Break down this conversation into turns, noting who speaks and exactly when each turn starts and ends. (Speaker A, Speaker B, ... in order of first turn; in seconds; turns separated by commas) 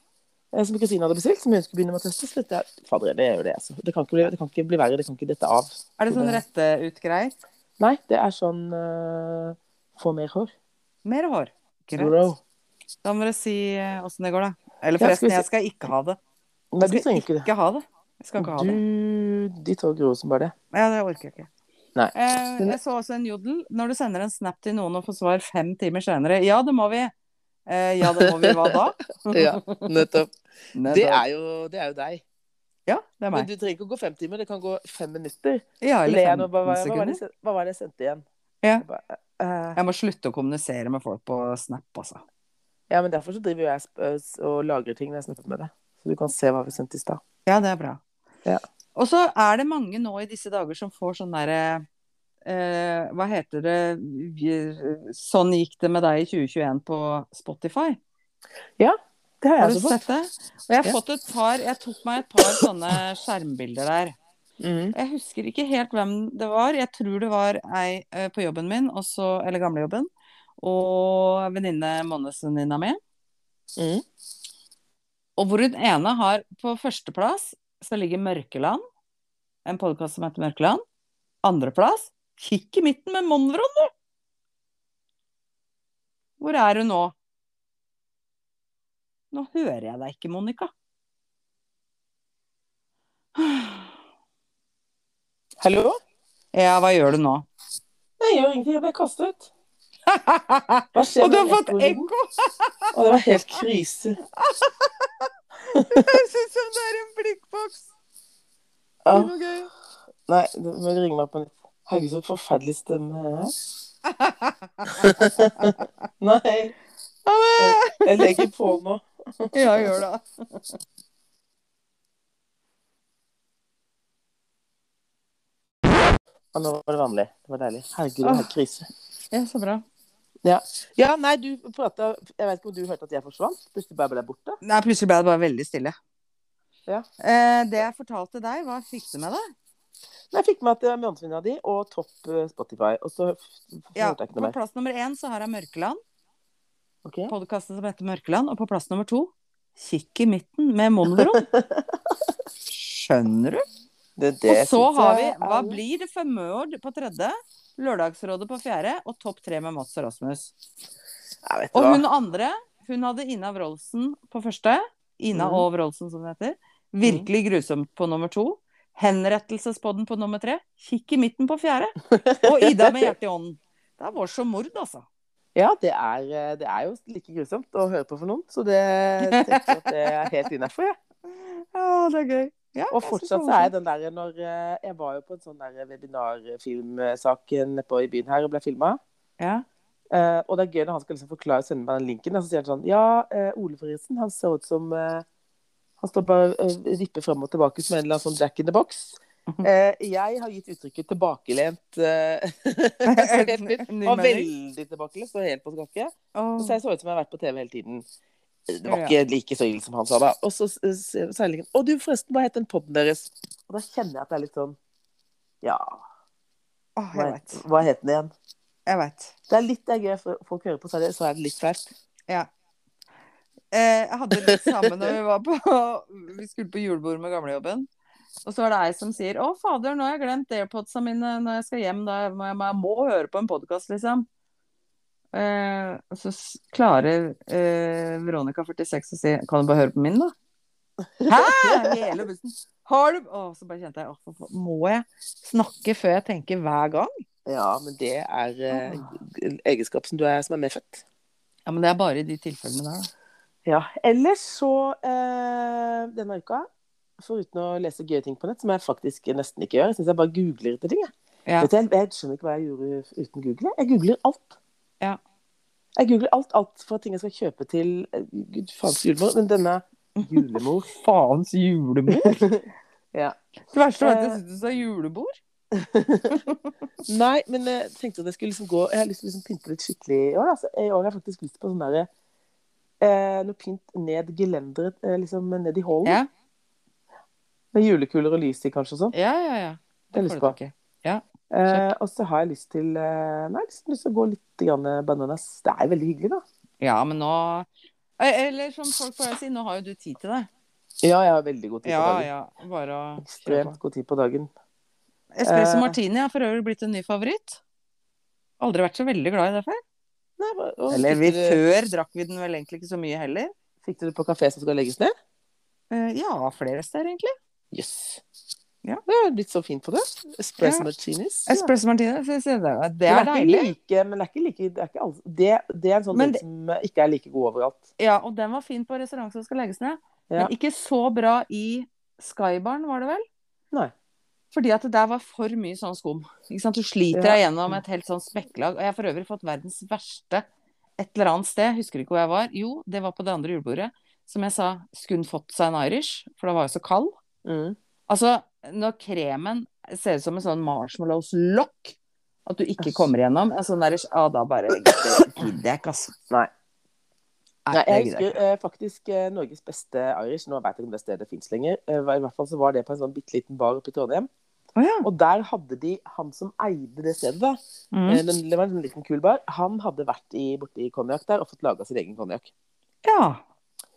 Speaker A: 0.5-6.4, Speaker B: 6.0-7.3, Speaker A: 7.8-10.5, Speaker B: 11.0-12.2, Speaker A: 11.9-12.4, Speaker B: 13.0-16.2, Speaker A: 15.0-15.4, Speaker A: 16.7-17.5, Speaker B: 16.8-18.8, Speaker A: 18.4-20.5, Speaker B: 20.7-21.5, Speaker A: 21.9-22.8, Speaker B: 22.1-27.1, Speaker B: 27.7-30.0, Speaker A: 28.2-28.7, Speaker A: 29.3-32.2, Speaker B: 30.7-31.2, Speaker B: 32.9-33.5, Speaker A: 33.3-38.2, Speaker B: 35.8-37.2, Speaker A: 38.8-39.8, Speaker B: 39.8-42.2, Speaker A: 42.9-47.2, Speaker B: 47.5-48.0, Speaker B: 48.9-51.8, Speaker B: 52.4-58.0, Speaker A: 58.8-60.0, Speaker B: 59.6-64.1, Speaker A: 64.6-64.9, Speaker B: 64.9-73.0, Speaker A: 73.8-74.0, Speaker B: 75.4-78.8, Speaker B: 79.6-80.8, Speaker B: 81.4-83.9, Speaker B: 86.4-87.1, Speaker B: 89.3-90.7, Speaker B: 93.3-93.9, Speaker A: 95.6-96.0, Speaker B: 96.5-97.5, Speaker A: 98.2-99.5, Speaker B: 100.0-103.4, Speaker A: 100.9-102.1, Speaker A: 102.9-104.2, Speaker B: 104.4-107.8, Speaker A: 105.7-106.1, Speaker A: 109.0-109.3, Speaker B: 109.1-109.7, Speaker A: 110.3-113.5, Speaker B: 114.0-115.8, Speaker A: 114.9-116.7, Speaker B: 117.2-118.5, Speaker A: 117.6-119.9, Speaker B: 119.5-120.6, Speaker A: 126.5-128.9, Speaker B: 128.2-128.5, Speaker B: 129.3-129.8, Speaker A: 130.4-134.6, Speaker B: 134.6-135.9, Speaker B: 137.2-139.4, Speaker A: 140.3-144.5, Speaker B: 143.9-146.0, Speaker A: 147.0-147.3, Speaker B: 147.3-151.4, Speaker A: 151.1-151.9, Speaker B: 152.7-153.6, Speaker A: 154.2-155.8, Speaker B: 154.5-160.5, Speaker A: 161.4-162.0, Speaker B: 161.7-175.0, Speaker A: 165.3-165.6, Speaker A: 172.1-173.1, Speaker A: 175.6-180.9, Speaker B: 179.3-179.6, Speaker B: 181.3-183.7, Speaker A: 182.9-189.0, Speaker B: 189.4-189.7, Speaker A: 190.1-195.2, Speaker A: 196.0-208.1, Speaker B: 203.0-204.5, Speaker B: 206.3-206.8, Speaker A: 208.7-214.8, Speaker B: 208.9-209.2, Speaker A: 215.6-216.0, Speaker B: 216.9-217.6, Speaker A: 217.1-218.3, Speaker B: 218.8-219.3, Speaker A: 219.5-221.9, Speaker B: 223.7-227.9, Speaker B: 228.4-234.3, Speaker B: 235.3-240.3, Speaker A: 241.2-242.1, Speaker B: 241.3-247.1, Speaker A: 247.4-251.0, Speaker B: 248.7-249.1, Speaker B: 251.7-253.1, Speaker A: 253.7-256.7, Speaker A: 257.2-264.6, Speaker A: 266.0-270.9, Speaker B: 270.2-272.4, Speaker A: 272.1-273.4, Speaker B: 273.7-275.4, Speaker A: 274.0-274.4, Speaker A: 275.7-276.4, Speaker B: 276.3-276.6, Speaker A: 277.1-282.1, Speaker A: 283.0-286.2, Speaker A: 287.7-289.1, Speaker B: 289.1-291.9, Speaker A: 290.1-290.6, Speaker A: 291.5-296.4, Speaker B: 296.8-297.7, Speaker B: 298.2-300.5, Speaker A: 301.0-302.3, Speaker B: 301.8-303.8, Speaker A: 303.2-304.5, Speaker B: 305.3-307.6, Speaker A: 305.4-305.9, Speaker B: 308.6-309.8, Speaker A: 310.4-311.6, Speaker B: 310.9-313.5, Speaker A: 313.8-315.1, Speaker B: 315.9-317.3, Speaker A: 317.7-318.2, Speaker A: 319.1-321.7, Speaker B: 320.6-320.9, Speaker B: 321.5-323.7, Speaker A: 323.1-327.9, Speaker B: 326.1-326.4, Speaker B: 328.0-333.2, Speaker B: 334.5-340.4, Speaker A: 337.1-337.8, Speaker B: 341.0-347.1, Speaker A: 347.4-347.8, Speaker B: 348.1-356.1, Speaker B: 357.6-358.3, Speaker A: 357.7-364.3, Speaker B: 364.8-365.1, Speaker A: 365.0-372.5, Speaker B: 367.9-368.2, Speaker B: 373.0-373.4